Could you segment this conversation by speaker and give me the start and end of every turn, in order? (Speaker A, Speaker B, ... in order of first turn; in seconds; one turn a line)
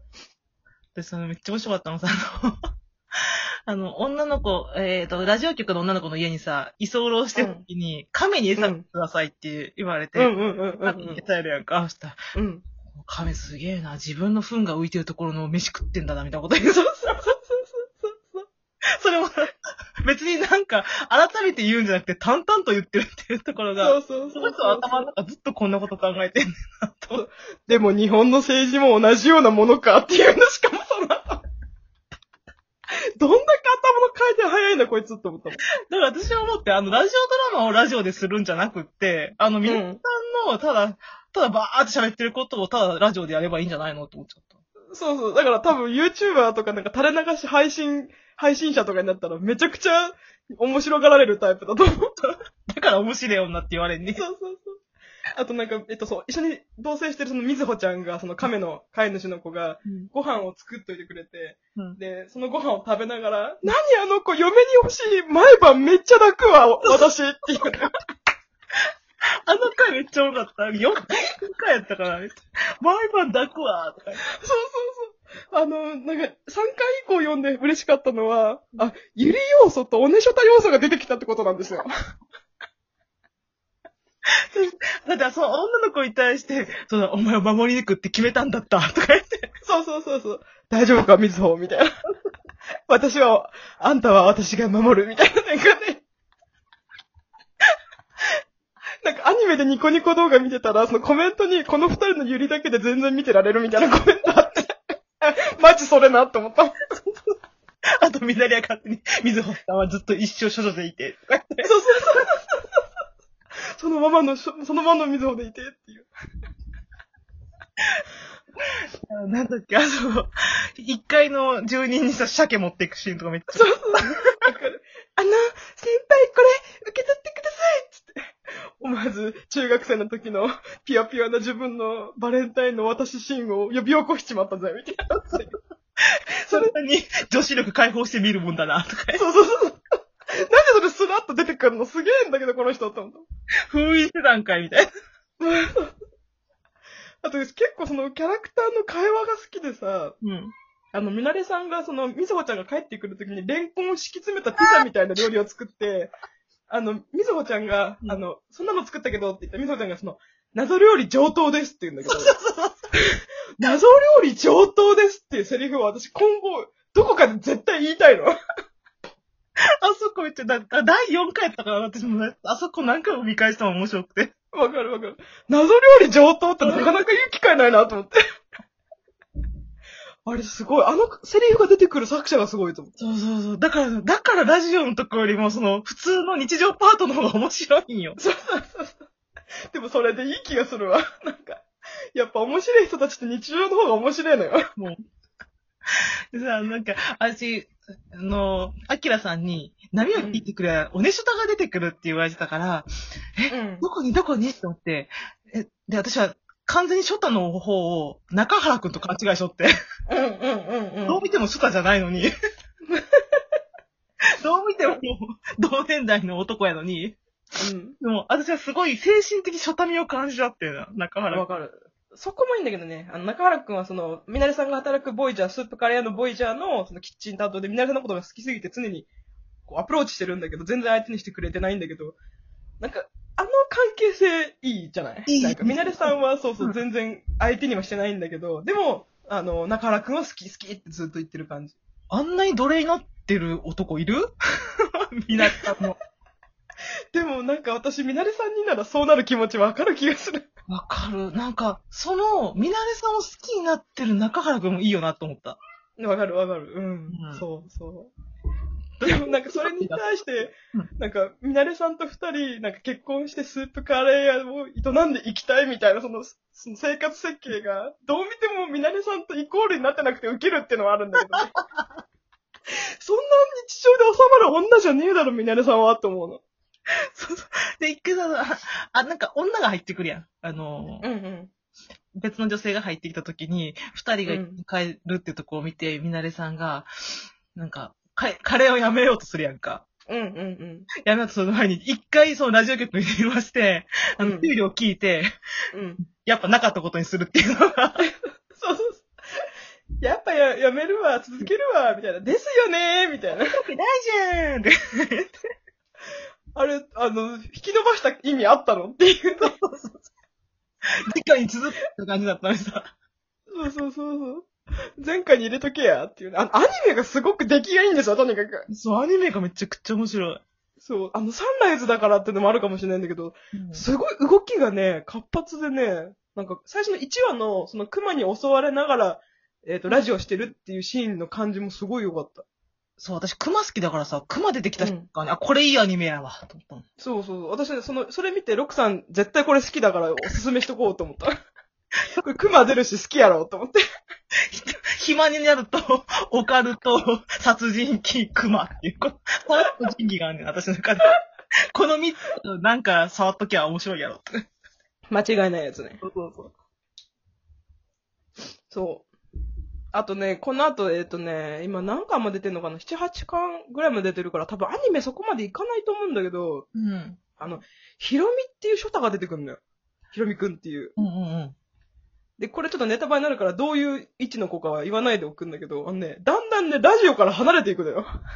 Speaker A: 0.9-2.6
Speaker A: 3.7-12.2
Speaker B: 7.4-7.6
Speaker B: 8.6-8.8
Speaker B: 10.2-11.2
Speaker B: 12.3-12.6
Speaker A: 12.9-16.9
Speaker B: 16.7-18.5
Speaker A: 19.0-19.5
Speaker A: 20.0-27.2
Speaker B: 23.8-25.1
Speaker B: 27.1-31.4
Speaker B: 33.2-35.6
Speaker A: 35.9-44.5
Speaker B: 39.6-40.0
Speaker B: 44.9-52.1
Speaker A: 52.2-54.2
Speaker B: 54.2-54.8
Speaker B: 55.4-67.9
Speaker A: 69.5-74.2
Speaker B: 74.3-81.9
Speaker A: 84.4-89.5
Speaker B: 89.6-91.9
Speaker B: 92.9-96.0
Speaker B: 99.0-106.8
Speaker A: 108.0-111.7
Speaker B: 111.6-112.6
Speaker B: 113.8-116.1
Speaker A: 119.1-124.1
Speaker B: 123.5-135.5
Speaker B: 136.5-136.7
Speaker A: 136.5-139.2
Speaker B: 139.1-139.8
Speaker B: 140.3-143.3
Speaker A: 143.7-144.9
Speaker B: 145.4-145.9
Speaker B: 147.2-150.2
Speaker A: 150.2-150.5
Speaker B: 150.9-156.1
Speaker B: 156.7-162.3
Speaker A: 162.1-162.8
Speaker B: 162.9-168.3
Speaker A: 169.8-174.3
Speaker B: 174.5-178.2
Speaker A: 176.6-177.0
Speaker B: 180.2-182.9
Speaker A: 183.0-188.2
Speaker B: 188.2-189.1
Speaker B: 189.7-194.7
Speaker A: 195.9-209.7
Speaker B: 200.2-200.5
Speaker B: 203.5-203.8
Speaker B: 210.1-211.2
Speaker A: 211.1-212.3
Speaker B: 212.9-213.4
Speaker A: 214.4-217.2
Speaker B: 217.6-218.0
Speaker A: 218.0-221.4
Speaker B: 221.3-229.1
Speaker B: 229.7-232.2
Speaker B: 232.8-241.8
Speaker A: 235.3-235.9
Speaker A: 242.1-244.3
Speaker A: 244.8-246.0
Speaker B: 247.1-250.5
Speaker A: 250.7-255.6
Speaker B: 256.0-258.1
Speaker A: 257.1-257.4
Speaker A: 259.0-260.0
Speaker B: 259.0-271.5
Speaker B: 273.0-276.4
Speaker A: 277.1-281.1
Speaker B: 281.0-281.5
Speaker A: 282.2-286.9
Speaker B: 284.3-284.6
Speaker A: 287.5-289.9
Speaker B: 290.1-290.9
Speaker A: 291.0-295.3
Speaker B: 294.2-294.5
Speaker B: 295.7-296.0
Speaker A: 296.1-298.1
Speaker B: 298.0-299.4
Speaker B: 300.0-303.6
Speaker A: 303.5-305.3
Speaker B: 306.6-309.5
Speaker A: 309.4-310.1
Speaker A: 311.1-312.9
Speaker B: 313.5-318.7
Speaker A: 318.7-320.4
Speaker B: 320.8-332.4
Speaker A: 323.5-323.9
Speaker A: 333.0-336.9
Speaker B: 334.8-335.1
Speaker B: 337.0-341.3
Speaker B: 342.2-343.8
Speaker A: 344.5-351.2
Speaker A: 351.7-354.3
Speaker B: 355.1-356.0
Speaker A: 356.0-356.5
Speaker B: 358.7-359.1
Speaker B: 359.9-366.6
Speaker A: 366.8-367.2
Speaker B: 367.4-369.6
Speaker B: 370.1-370.9
Speaker A: 371.0-371.6
Speaker B: 372.4-378.1